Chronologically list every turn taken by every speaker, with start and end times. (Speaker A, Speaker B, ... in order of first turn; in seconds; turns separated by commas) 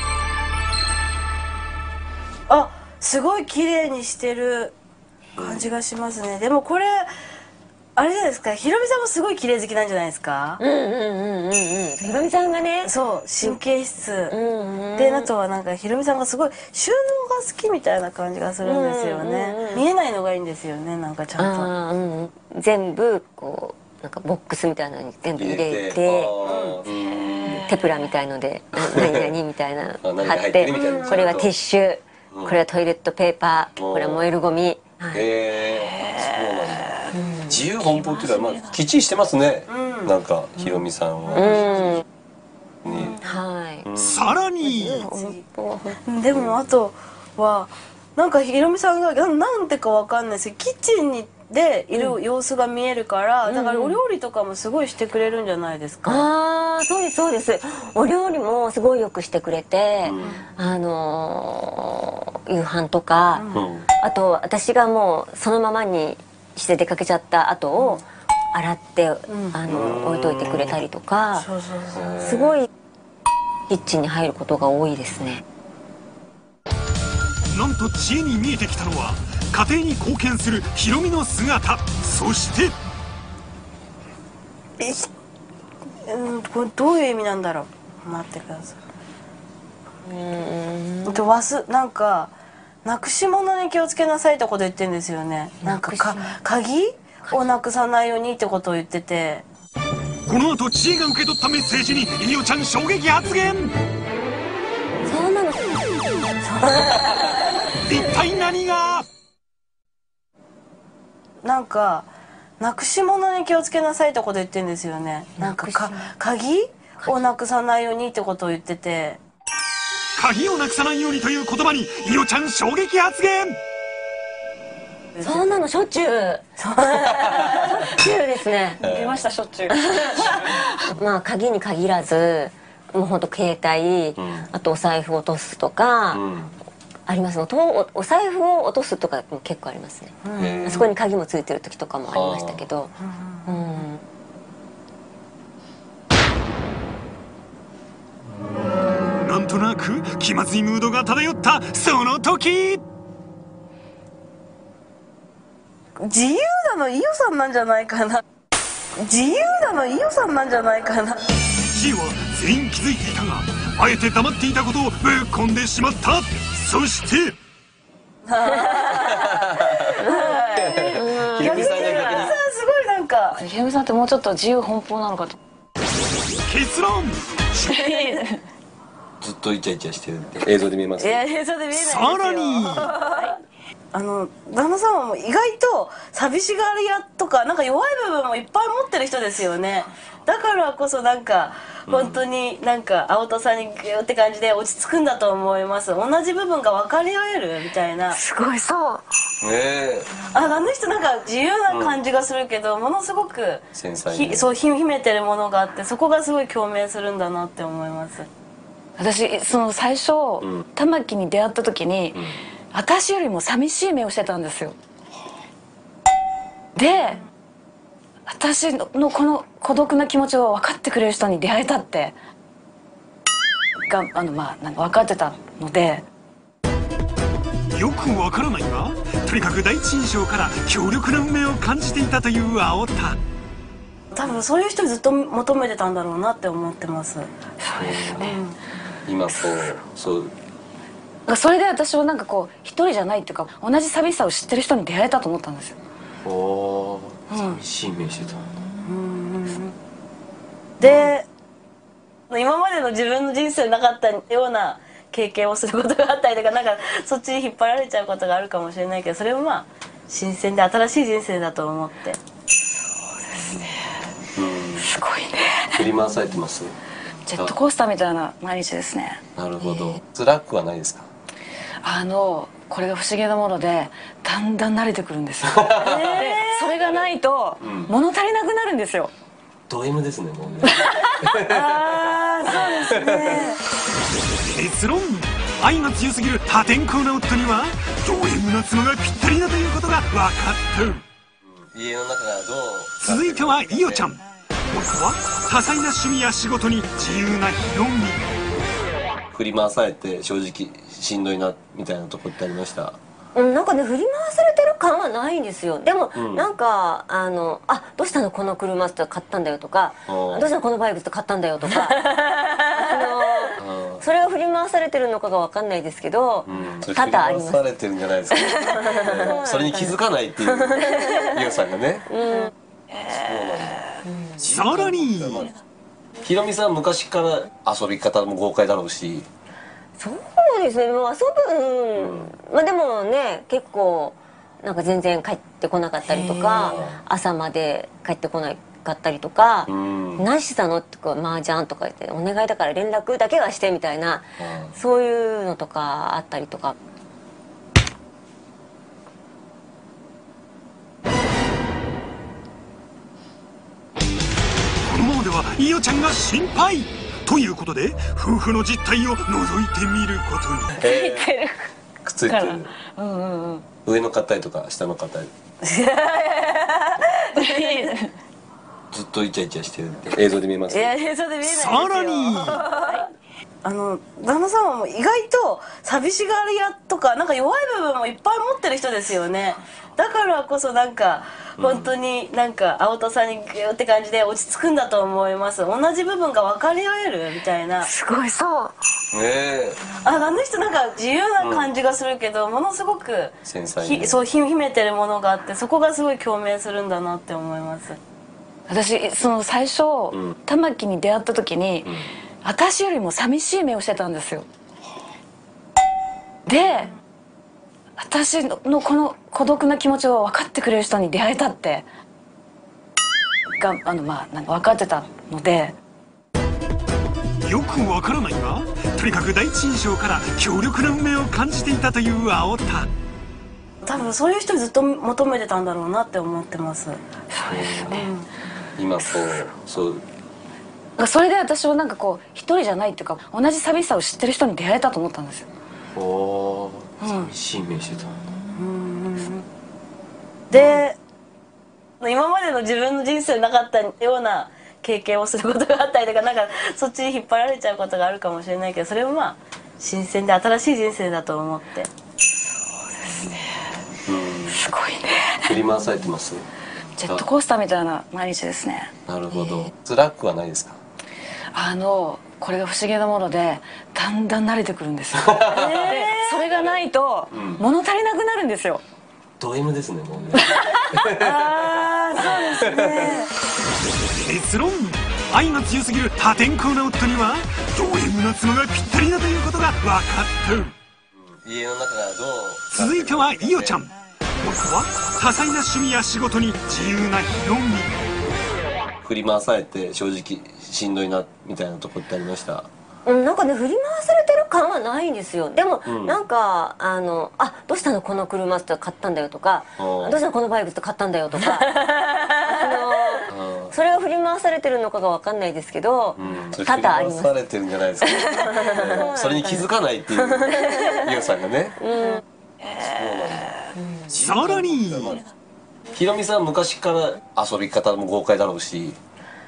Speaker A: 2.5-4.7, Speaker A: 5.4-7.1, Speaker B: 5.4-5.6, Speaker A: 8.0-10.6, Speaker C: 10.6-13.6, Speaker A: 12.8-14.4, Speaker C: 14.3-15.3, Speaker A: 14.9-21.7, Speaker C: 18.6-19.9, Speaker C: 21.4-26.3, Speaker B: 25.4-27.7, Speaker A: 26.4-26.8, Speaker C: 27.7-35.2, Speaker B: 28.9-29.3, Speaker B: 30.0-31.5, Speaker A: 30.7-31.4, Speaker B: 32.3-32.6, Speaker B: 33.8-34.3, Speaker B: 35.1-42.0, Speaker A: 39.7-41.6, Speaker C: 41.4-42.0, Speaker B: 42.8-43.2, Speaker C: 43.2-43.9, Speaker B: 43.8-44.3, Speaker D: 44.0-45.1, Speaker A: 44.9-45.4, Speaker A: 46.0-56.3, Speaker B: 46.3-46.6, Speaker C: 53.5-54.0, Speaker C: 56.1-63.4, Speaker B: 60.0-60.4, Speaker A: 63.3-63.6, Speaker B: 63.5-63.9, Speaker C: 64.0-71.5, Speaker A: 67.8-68.0, Speaker A: 69.3-69.6, Speaker B: 69.7-70.6, Speaker A: 71.4-72.1, Speaker B: 71.9-72.6, Speaker C: 72.2-72.7, Speaker C: 73.7-75.4, Speaker D: 77.5-82.7, Speaker A: 84.8-85.1, Speaker A: 86.0-88.8, Speaker C: 90.0-91.2, Speaker A: 91.1-92.3, Speaker A: 92.8-99.4, Speaker C: 95.6-96.3, Speaker D: 100.3-103.7, Speaker C: 105.1-105.8, Speaker A: 106.4-107.4, Speaker D: 107.9-109.1, Speaker A: 111.4-112.1, Speaker A: 112.6-119.2, Speaker C: 115.4-116.1, Speaker D: 120.2-123.6, Speaker C: 125.2-126.4, Speaker A: 126.6-127.9, Speaker C: 127.3-128.8, Speaker E: 128.8-130.7, Speaker B: 128.8-129.2, Speaker C: 129.7-136.2, Speaker B: 134.2-134.5, Speaker B: 136.1-136.5, Speaker C: 137.1-140.1, Speaker A: 140.2-140.8, Speaker B: 140.3-140.9, Speaker C: 140.7-142.9, Speaker B: 142.1-142.6, Speaker C: 143.4-144.0, Speaker D: 149.2-152.8, Speaker A: 156.0-158.2, Speaker A: 159.0-161.2, Speaker D: 161.7-167.3, Speaker A: 168.2-173.4, Speaker B: 168.9-169.9, Speaker C: 170.1-170.3, Speaker B: 170.6-172.4, Speaker C: 170.9-172.3, Speaker E: 173.4-175.4, Speaker D: 176.4-177.8, Speaker E: 177.7-178.4, Speaker B: 179.2-181.2, Speaker A: 181.0-183.3, Speaker D: 181.7-182.9, Speaker A: 183.9-198.2, Speaker B: 191.9-192.2, Speaker E: 198.1-199.0, Speaker B: 199.4-200.1, Speaker A: 200.3-208.3, Speaker B: 201.7-202.0, Speaker B: 203.7-204.6, Speaker E: 209.0-212.2, Speaker E: 212.7-214.8, Speaker E: 216.8-217.2, Speaker E: 218.3-222.1, Speaker E: 223.9-226.1, Speaker D: 227.7-233.2, Speaker A: 234.1-237.3, Speaker E: 237.6-238.4, Speaker B: 237.8-238.2, Speaker A: 238.2-238.6, Speaker B: 239.1-240.3, Speaker E: 241.3-245.8, Speaker B: 246.2-248.5, Speaker E: 247.3-247.6, Speaker A: 248.8-249.7, Speaker A: 250.8-251.3, Speaker B: 250.8-251.1, Speaker A: 252.3-262.2, Speaker E: 263.3-263.8, Speaker B: 264.4-264.9, Speaker E: 264.8-265.9, Speaker B: 265.7-266.7, Speaker E: 267.3-269.2, Speaker B: 269.4-271.1, Speaker E: 271.8-279.1, Speaker B: 275.4-277.0, Speaker A: 275.8-276.7, Speaker B: 277.6-277.9, Speaker B: 279.7-282.2, Speaker E: 280.9-281.1, Speaker A: 281.5-283.6, Speaker B: 282.9-283.5, Speaker D: 284.4-291.0, Speaker B: 291.4-294.1, Speaker D: 293.0-298.2, Speaker B: 299.3-303.0, Speaker C: 303.4-312.1, Speaker B: 306.1-306.5, Speaker B: 310.1-310.5, Speaker A: 311.9-313.1, Speaker C: 312.7-317.6, Speaker B: 313.6-314.0, Speaker B: 316.4-322.1, Speaker C: 318.5-319.9, Speaker C: 320.8-321.3, Speaker C: 322.1-322.5, Speaker B: 323.1-325.6, Speaker D: 324.5-325.4, Speaker B: 326.2-329.3, Speaker C: 330.0-346.8, Speaker B: 331.9-332.3, Speaker A: 336.1-336.8, Speaker B: 336.5-337.0, Speaker B: 339.7-340.3, Speaker B: 344.4-344.7, Speaker D: 354.9-360.8, Speaker B: 360.8-361.3, Speaker E: 360.8-361.7, Speaker B: 362.0-362.7, Speaker E: 362.3-363.6, Speaker B: 363.9-365.3, Speaker A: 365.6-367.9, Speaker E: 367.4-368.1, Speaker B: 368.9-370.9, Speaker A: 370.7-373.1, Speaker D: 371.4-372.6, Speaker A: 373.6-387.9, Speaker B: 381.6-381.9, Speaker E: 387.8-388.7, Speaker B: 389.1-389.8, Speaker A: 390.0-398.0, Speaker B: 391.4-391.7, Speaker B: 393.4-394.3, Speaker E: 398.7-404.5, Speaker B: 401.8-402.1, Speaker E: 406.5-406.9, Speaker E: 408.0-411.9, Speaker E: 413.6-415.8, Speaker D: 417.4-422.9, Speaker A: 423.8-427.0, Speaker E: 427.3-428.1, Speaker B: 427.5-427.9, Speaker A: 427.9-428.3, Speaker B: 428.8-430.0, Speaker E: 431.0-435.5, Speaker B: 435.9-438.1, Speaker E: 437.0-437.3, Speaker A: 438.6-439.4, Speaker A: 440.5-441.0, Speaker B: 440.5-440.8, Speaker A: 442.0-451.9, Speaker E: 453.0-453.5, Speaker B: 454.1-454.6, Speaker E: 454.5-455.6, Speaker B: 455.4-456.4, Speaker E: 457.0-458.9, Speaker B: 459.1-460.8, Speaker E: 461.5-468.8, Speaker B: 465.1-466.7, Speaker A: 465.5-466.4, Speaker B: 467.3-467.6, Speaker B: 469.4-471.9, Speaker A: 471.2-473.3, Speaker B: 472.6-473.2, Speaker D: 474.1-480.7, Speaker B: 481.1-483.8, Speaker D: 482.7-487.9, Speaker B: 489.0-492.7, Speaker C: 493.1-501.8, Speaker B: 495.9-496.2, Speaker B: 499.8-500.2, Speaker A: 501.6-503.0, Speaker C: 502.5-507.3, Speaker B: 503.3-503.7, Speaker B: 506.2-511.8, Speaker C: 508.3-509.6, Speaker C: 510.6-511.0, Speaker C: 511.8-512.2, Speaker B: 512.8-515.2, Speaker D: 514.2-515.1, Speaker B: 515.9-519.0